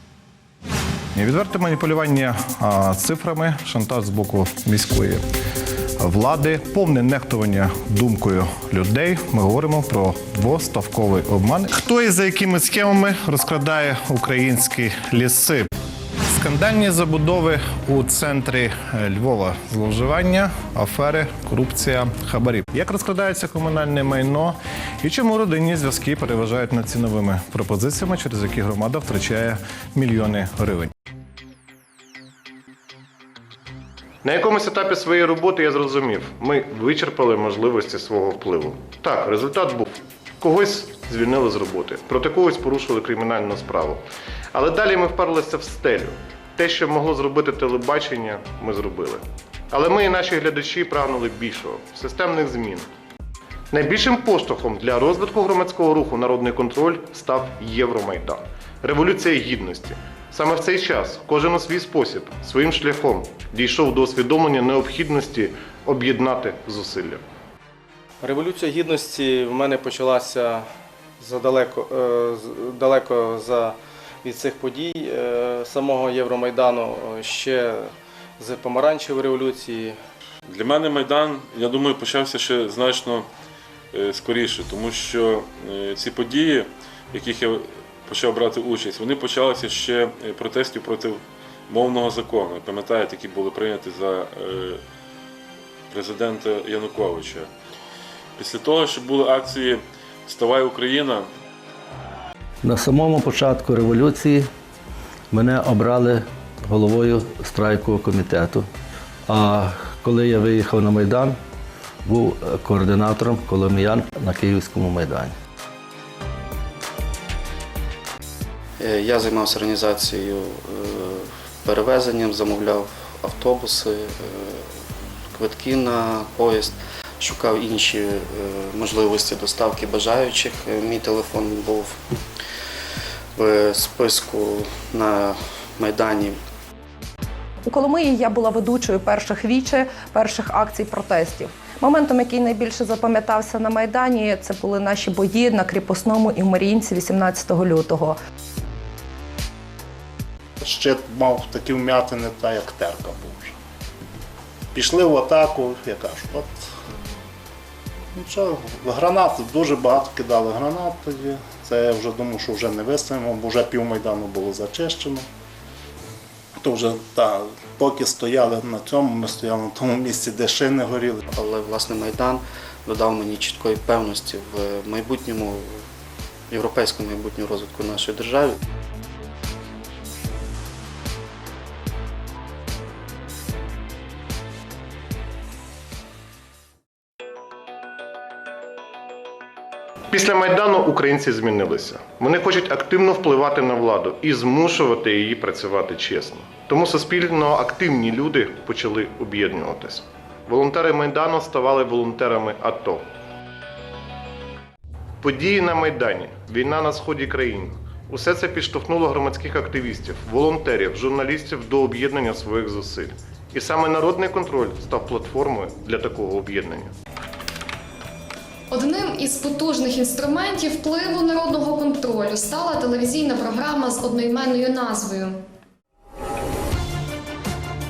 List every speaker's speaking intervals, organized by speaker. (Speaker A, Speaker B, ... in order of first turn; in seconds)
Speaker A: 1.1-5.2, 6.0-15.7, 16.2-30.9, 34.2-44.0, 44.5-52.9, 53.7-67.2, 190.1-203.1, 205.2-216.9
Speaker B: 68.2-70.7, 71.2-80.0
Speaker C: 80.5-83.3, 83.9-94.8, 95.9-97.5, 98.4-101.3
Speaker D: 102.6-104.5, 105.3-108.7, 109.3-111.4, 112.0-115.3
Speaker E: 118.8-124.7, 125.3-132.0, 133.4-136.4, 171.3-175.8, 176.5-178.6
Speaker F: 137.7-148.2
Speaker G: 150.6-153.5, 154.7-156.6, 158.2-165.3, 166.6-171.2
Speaker H: 218.7-225.4